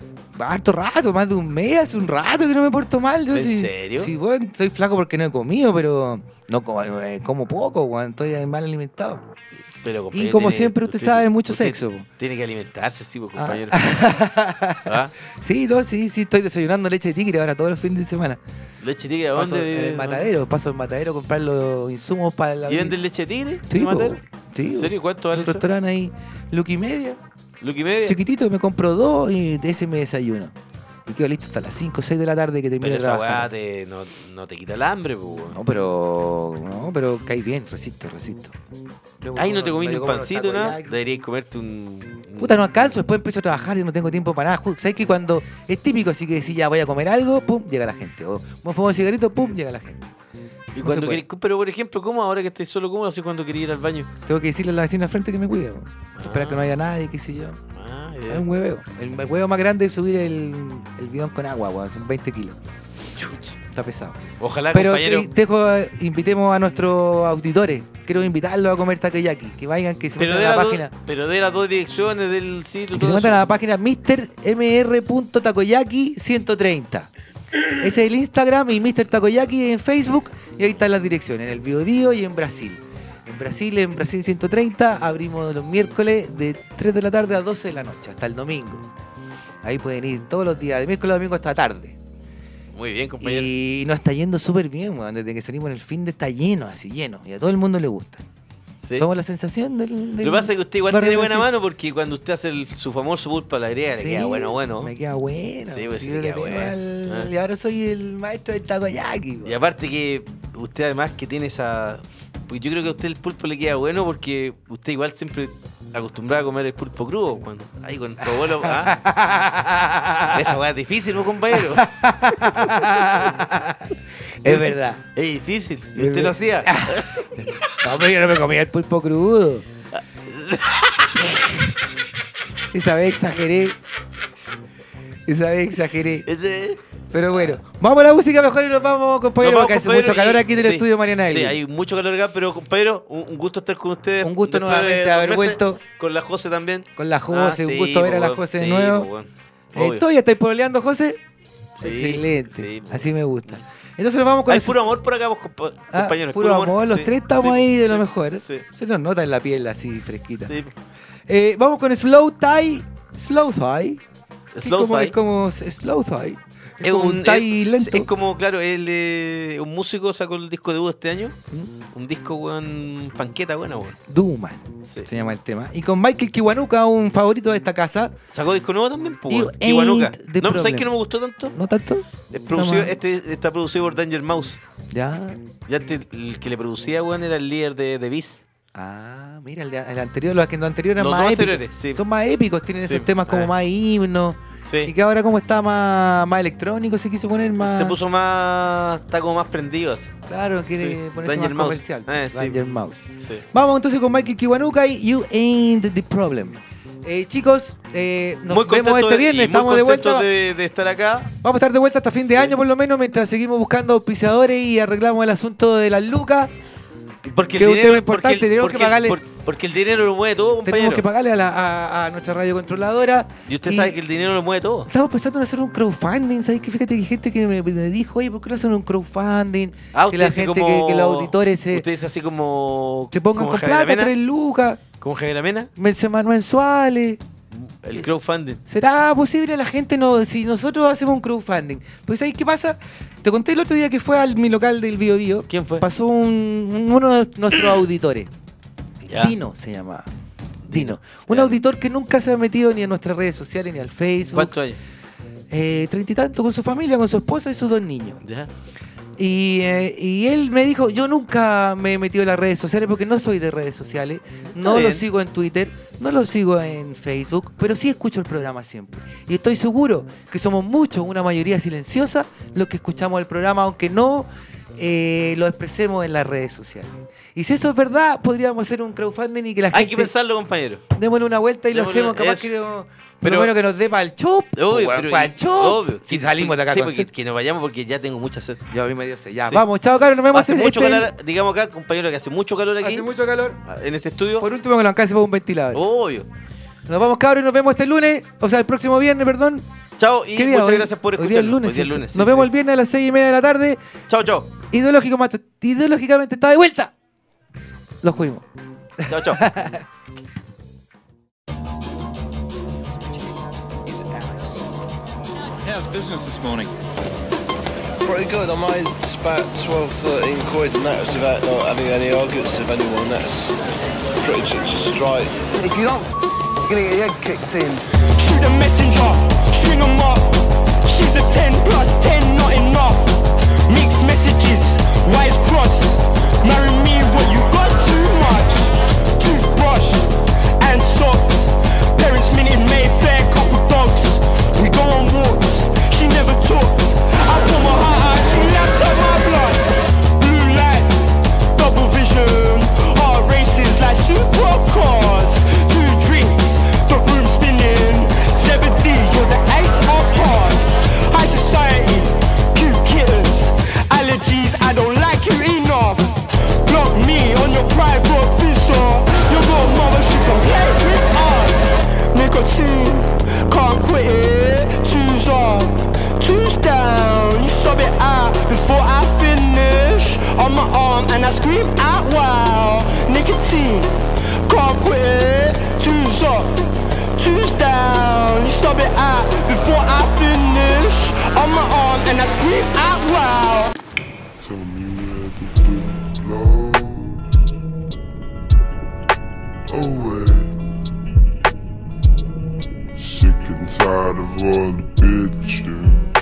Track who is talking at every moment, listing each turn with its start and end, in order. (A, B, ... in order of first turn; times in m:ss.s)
0:00.3-0:09.2 A
0:03.3-0:04.1 B
0:09.8-0:14.2 B
0:10.1-0:12.0 A
0:13.4-0:18.4 A
0:14.8-0:15.1 B
0:18.8-0:20.3 B
0:19.3-0:23.0 A
0:22.7-0:25.6 B
0:23.7-0:27.2 A
0:27.6-0:28.2 B
0:28.0-0:30.5 A
0:31.0-0:33.5 A
0:32.8-0:35.6 B
0:35.5-0:38.6 A
0:39.2-0:41.0 A
0:39.4-0:42.8 B
0:42.4-0:50.1 A
0:50.7-0:54.1 B
0:50.8-0:51.2 A
0:54.2-0:57.6 A
0:56.2-0:56.7 B
0:57.7-0:58.4 B
0:58.3-1:02.6 A
1:03.2-1:03.6 B
1:03.7-1:10.9 A
1:04.4-1:05.3 B
1:10.2-1:13.4 B
1:12.9-1:17.1 A
1:17.8-1:28.9 A
1:29.6-1:32.0 A
1:32.7-1:33.5 B
1:33.2-1:38.2 A
1:39.0-1:41.5 A
1:40.2-1:44.9 B
1:43.9-1:49.6 A
1:45.7-1:47.3 B
1:49.4-1:59.0 B
1:58.2-2:00.6 A
2:00.3-2:02.9 B
2:01.5-2:05.0 A
2:04.4-2:07.6 B
2:06.0-2:09.7 A
2:09.9-2:11.2 B
2:12.7-2:13.8 A
2:15.3-2:16.2 A
2:16.2-2:17.6 B
2:17.1-2:21.6 A
2:19.4-2:30.0 B
2:24.2-2:25.8 A
2:27.0-2:29.1 A
2:29.7-2:31.2 A
2:31.8-2:33.6 B
2:31.8-2:34.8 A
2:34.5-2:38.6 B
2:35.9-2:40.5 A
2:40.4-2:40.7 B
2:41.3-2:44.0 A
2:44.5-2:45.2 B
2:44.6-2:48.1 A
2:46.8-2:51.4 B
2:51.9-2:54.0 B
2:54.1-2:58.2 A
2:58.3-3:01.5 B
2:59.3-3:00.9 A
3:01.5-3:03.0 A
3:02.3-3:04.6 B
3:04.9-3:05.4 A
3:05.7-3:08.4 B
3:08.7-3:18.0 A
3:11.0-3:12.0 B
3:12.8-3:13.5 B
3:14.6-3:14.9 B
3:17.6-3:20.1 B
3:20.3-3:30.3 A
3:20.7-3:22.6 B
3:28.5-3:31.3 B
3:31.4-3:36.5 A
3:32.2-3:32.6 B
3:37.2-3:41.0 B
3:37.5-3:39.2 A
3:40.6-3:44.0 A
3:43.5-3:44.9 B
3:44.9-3:51.8 A
3:49.9-3:54.1 B
3:53.1-3:54.8 A
3:55.0-3:55.7 B
3:55.8-3:57.2 A
3:57.5-3:58.6 B
3:58.7-4:08.3 A
4:05.5-4:05.8 B
4:09.0-4:09.3 B
4:09.2-4:10.1 A
4:10.6-4:11.6 B
4:10.7-4:14.5 A
4:14.3-4:14.8 B
4:15.5-4:18.2 A
4:18.2-4:18.5 B
4:19.2-4:40.1 A
4:24.5-4:25.0 B
4:39.7-4:40.8 B
4:40.9-4:47.1 A
4:41.7-4:42.5 B
4:43.2-4:43.5 B
4:44.6-4:48.6 B
4:48.7-4:51.1 A
4:50.3-4:53.1 B
4:52.8-4:53.6 A
4:53.6-4:54.5 B
4:54.4-4:55.8 A
4:55.7-4:56.3 B
4:56.9-4:59.7 A
5:00.0-5:02.5 B
5:00.3-5:03.8 A
5:04.1-5:04.5 B
5:04.7-5:06.9 A
5:08.0-5:08.4 A
5:09.0-5:09.8 A
5:09.1-5:09.5 B
5:13.7-5:14.6 C
5:15.6-5:16.7 C
5:18.0-5:23.6 D
5:24.2-5:26.1 D
5:26.6-5:27.8 D
5:28.2-5:40.1 E
5:40.6-5:49.6 E
5:50.2-6:23.9 E
6:24.4-6:26.6 E
6:27.2-6:33.7 E
6:34.4-6:37.2 F
6:39.7-6:40.5 F
6:43.0-6:46.0 F